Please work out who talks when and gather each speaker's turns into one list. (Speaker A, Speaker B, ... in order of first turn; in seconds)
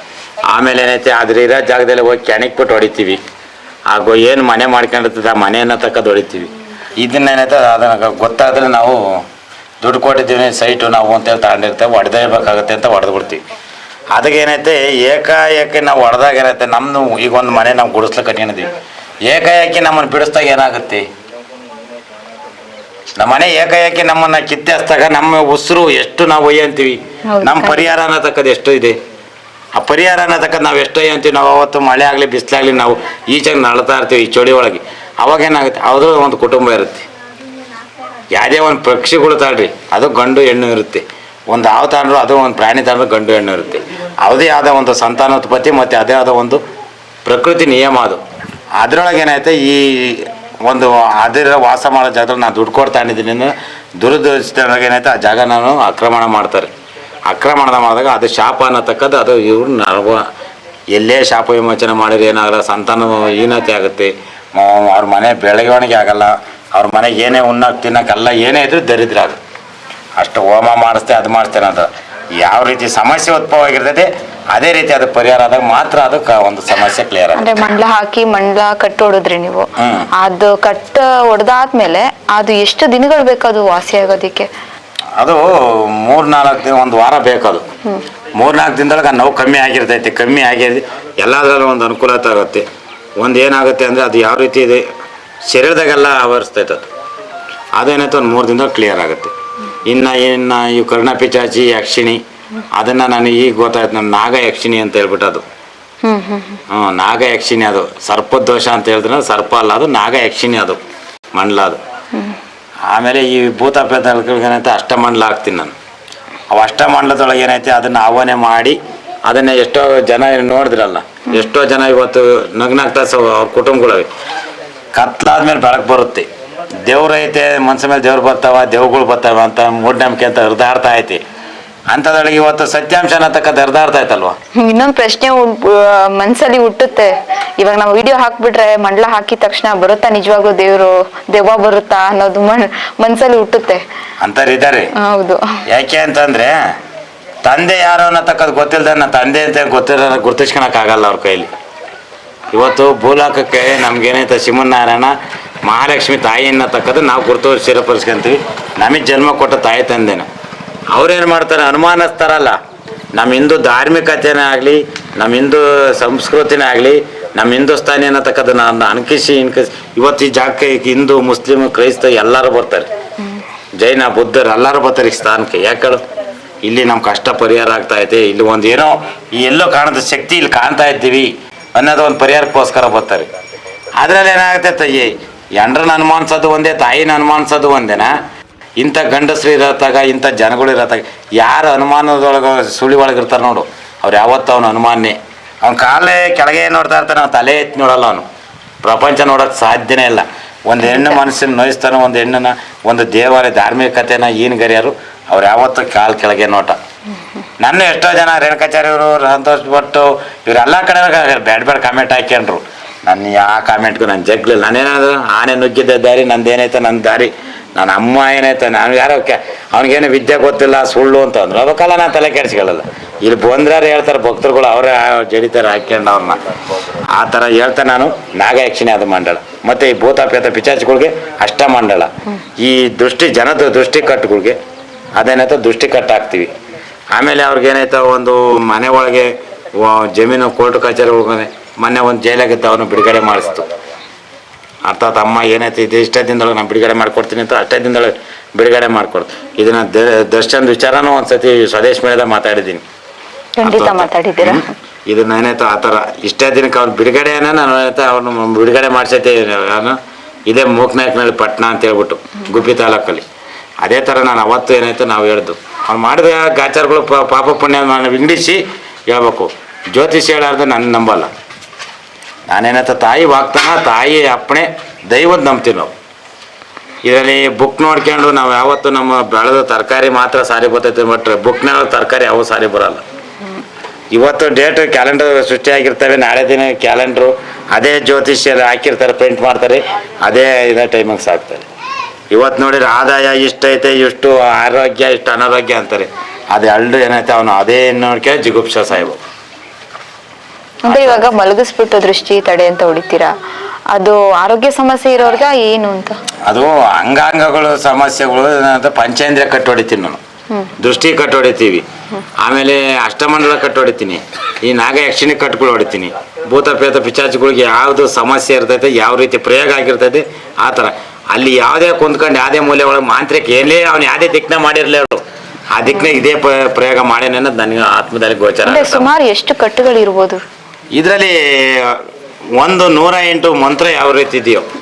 Speaker A: 0.5-3.2, 3.9-9.0, 9.8-13.4, 14.1-18.7, 19.3-21.1, 23.2-29.0, 29.7-37.0, 38.3-46.6, 47.2-48.2, 48.8-56.7, 57.3-60.2, 60.9-69.4, 70.2-71.9, 72.4-77.5, 79.8-80.1, 85.2-85.5, 86.0-87.6, 88.4-92.6, 93.2-94.8, 95.5-96.9, 97.8-99.3, 99.8-102.2, 102.7-105.4, 106.7-110.8, 111.3-111.8, 112.9-115.8, 116.5-124.1, 124.9-126.2, 126.9-131.2, 131.9-134.3, 144.2-144.9, 145.7-146.5, 147.4-151.5, 152.5-155.1, 155.6-160.3, 160.9-162.5, 163.1-172.9, 173.8-176.0, 176.6-183.3, 184.0-188.1, 188.8-198.2, 198.8-206.8, 207.6-226.4, 227.1-234.6, 235.2-236.5, 237.1-243.6, 244.8-252.8, 253.6-260.0, 260.5-263.2, 263.8-271.3, 272.5-275.9, 277.0-283.0, 284.1-291.7, 292.3-299.2, 300.9-301.2, 306.5-310.2, 310.8-311.8, 312.4-325.2, 325.7-329.1, 330.9-332.0, 332.6-334.6
Speaker B: 27.3-27.8, 77.3-84.5, 106.0-106.6, 134.6-143.8, 145.0-145.4, 253.6-254.6, 300.9-303.3, 303.9-306.1, 328.6-330.4